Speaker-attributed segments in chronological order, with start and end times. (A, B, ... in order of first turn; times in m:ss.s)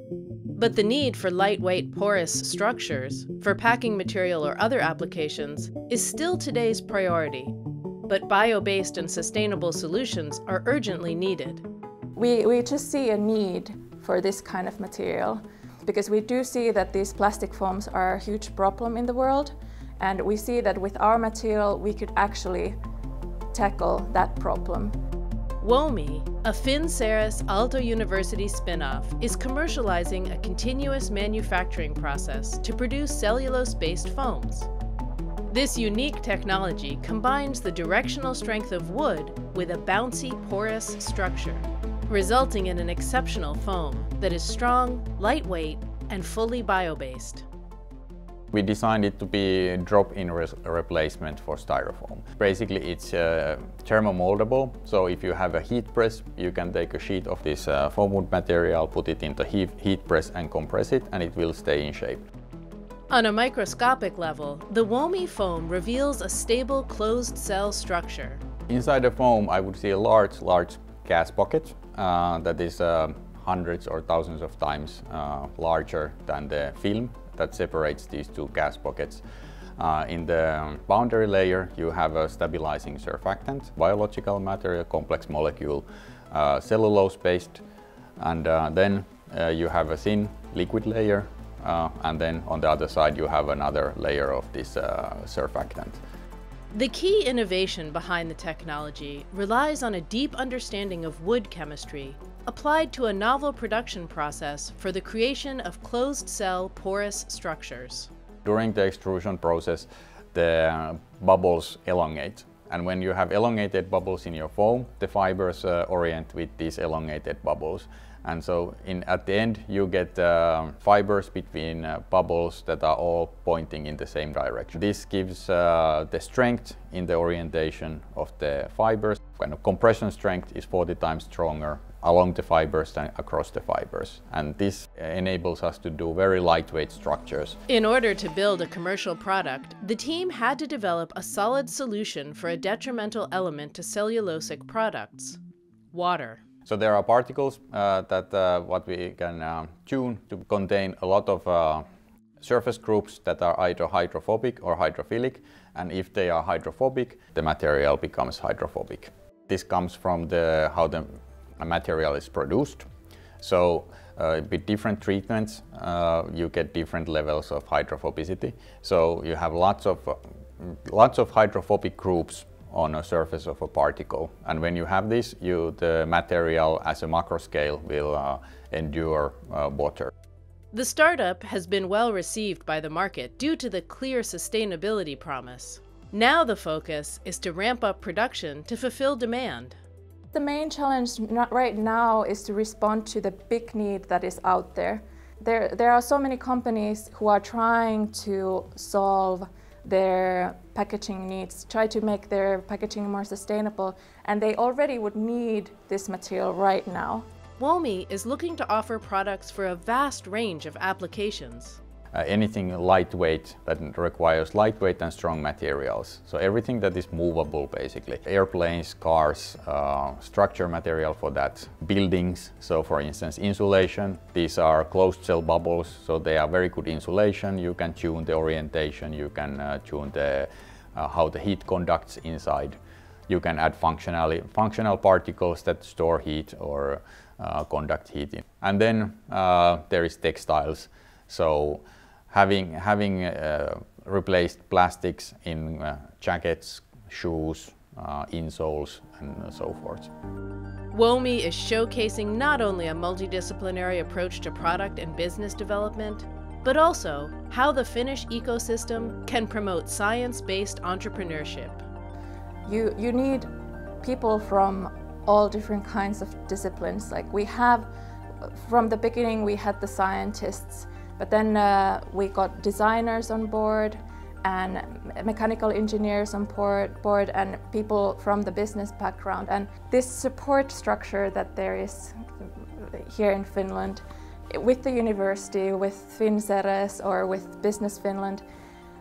0:00.6-0:07.5 A
0:08.1-0:11.6 A
0:12.1-0:22.8 B
0:23.5-0:24.9 B
0:25.6-0:34.7 A
0:35.5-0:47.4 A
0:48.5-1:02.2 C
1:03.1-1:08.4 A
1:08.7-1:19.2 C
1:19.8-1:27.6 C
1:28.2-1:36.0 C
1:36.7-1:48.1 A
1:48.4-2:17.6 C
2:17.7-2:25.4 A
2:25.9-2:26.4 A
2:26.6-2:31.8 C
2:32.4-2:42.8 C
2:43.4-3:00.1 C
3:00.7-3:09.8 A
3:10.3-3:27.3 B
3:27.6-3:31.8 A
3:32.1-4:10.1 C
4:10.9-4:21.8 A
4:22.6-4:27.9 B
4:28.4-4:48.4 B